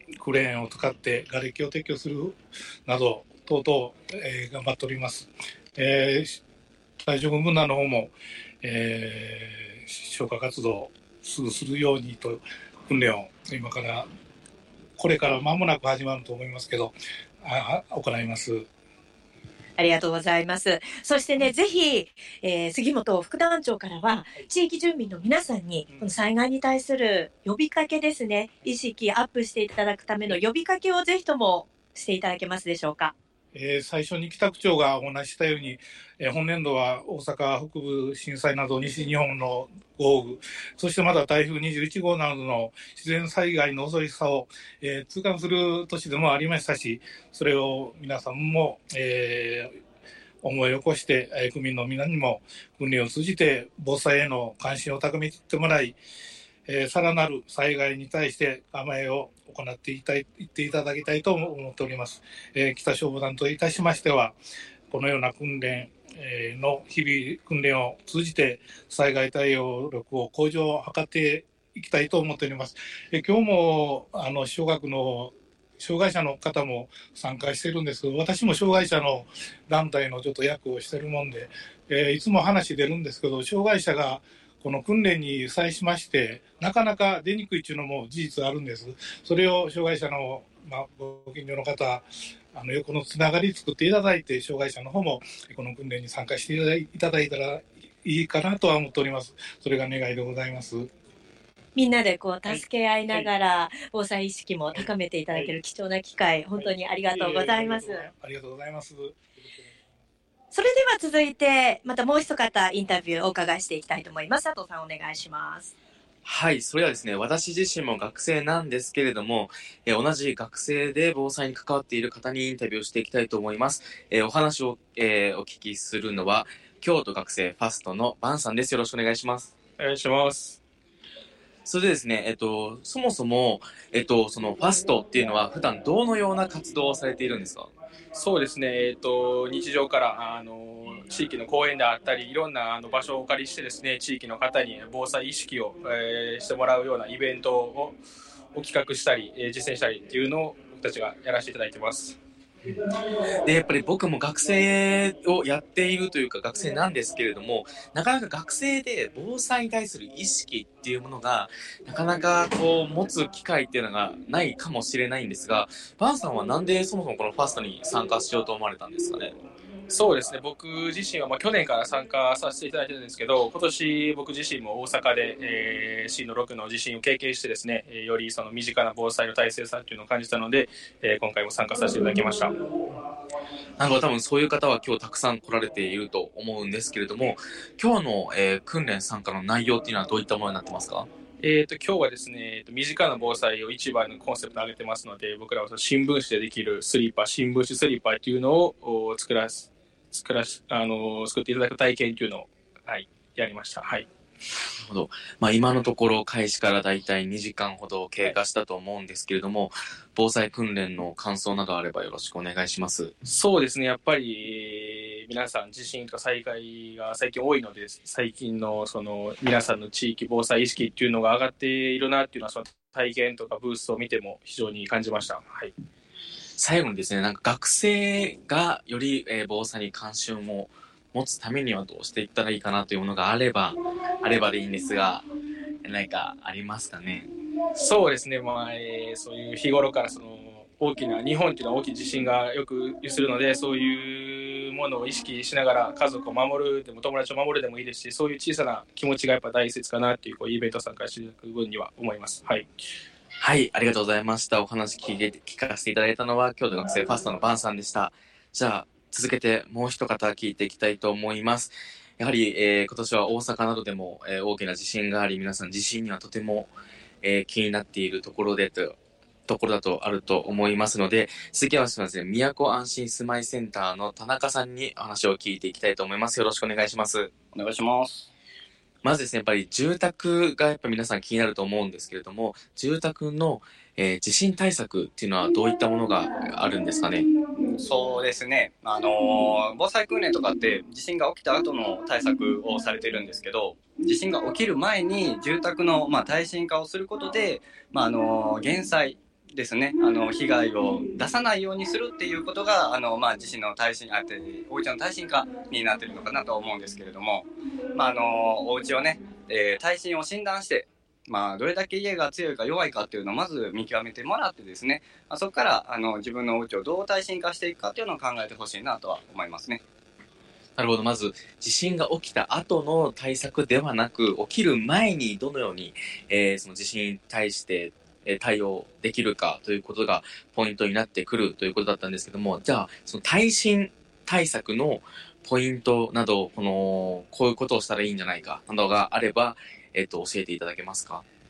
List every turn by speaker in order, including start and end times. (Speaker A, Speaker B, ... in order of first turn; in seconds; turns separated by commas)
Speaker A: 0.2-6.4, Speaker A: 7.0-14.1, Speaker A: 15.0-18.7, Speaker B: 19.8-33.1, Speaker A: 33.5-49.7, Speaker A: 50.4-56.0, Speaker A: 56.7-64.4, Speaker A: 64.9-100.9, Speaker B: 101.8-108.1, Speaker A: 107.1-109.7, Speaker B: 110.5-115.7, Speaker C: 116.2-129.5, Speaker D: 129.8-130.6, Speaker C: 131.7-137.7, Speaker D: 138.1-148.0, Speaker D: 148.6-152.2, Speaker C: 153.4-169.3, Speaker D: 169.9-182.5, Speaker C: 183.8-191.1, Speaker D: 191.4-204.1, Speaker C: 204.8-213.1, Speaker D: 213.3-225.7, Speaker C: 226.6-235.3, Speaker C: 235.8-237.3, Speaker D: 237.8-252.7, Speaker C: 253.4-266.7, Speaker C: 267.2-269.0, Speaker C: 269.5-277.3, Speaker E: 277.5-278.3, Speaker C: 279.0-287.3, Speaker E: 287.6-319.8, Speaker C: 320.8-341.2